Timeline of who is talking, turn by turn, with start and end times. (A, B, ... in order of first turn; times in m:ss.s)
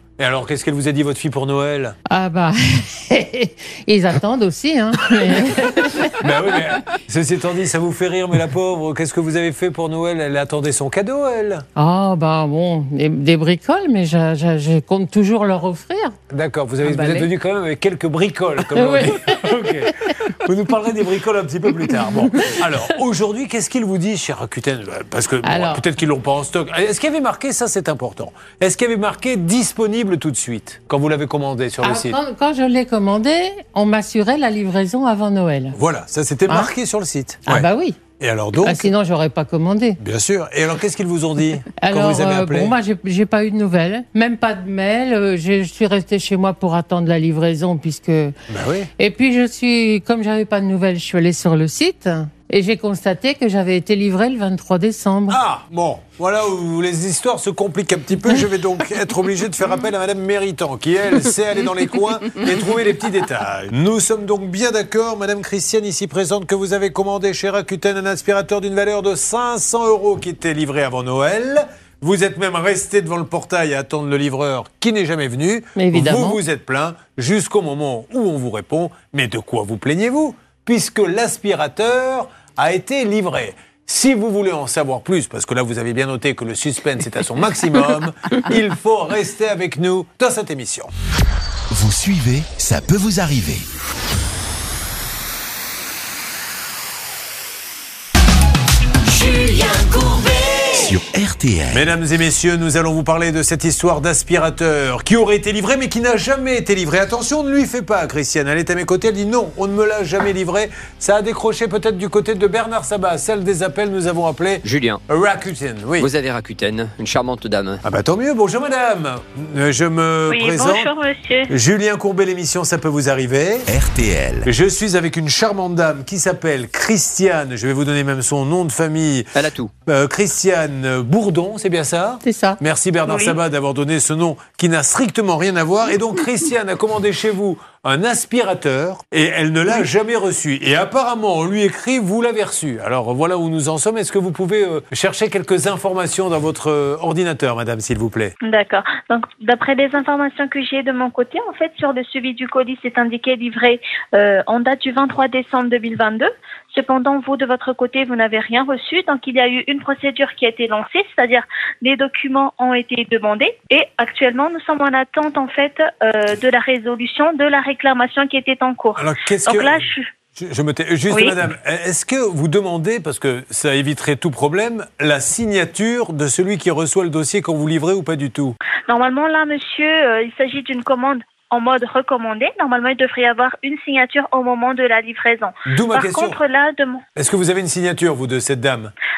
0:00.2-0:02.0 A
0:02.1-0:06.2 B
0:06.2-0:11.6 A
0:11.8-0:16.2 B
0:16.3-0:32.2 A
0:16.8-0:17.3 B
0:18.7-0:19.9 B
0:25.4-0:25.8 B
0:31.8-0:35.8 B
0:35.7-0:37.7 A
0:36.5-0:36.7 B
0:37.5-0:38.0 B
0:38.2-0:38.9 A
0:38.6-0:40.0 B
0:40.0-0:42.8 A
0:41.8-0:48.3 B
0:48.5-0:48.9 A
0:49.0-0:55.4 B
0:55.3-1:30.9 A
1:15.8-1:16.4 B
1:31.7-1:33.7 C
1:40.7-1:41.9 C
1:41.7-1:56.1 A
1:54.6-1:55.0 D
1:56.0-1:57.8 D
1:57.8-2:00.9 A
2:00.3-2:01.5 E
2:01.5-2:03.7 A
2:03.7-2:04.5 C
2:04.4-2:09.3 A
2:09.4-2:09.7 D
2:09.9-2:28.4 A
2:12.2-2:12.6 B
2:28.4-2:50.1 E
2:49.0-2:49.8 A
2:50.4-2:58.6 A
2:51.1-2:51.4 E
2:58.9-3:07.0 E
3:05.7-3:06.4 A
3:07.2-3:08.9 A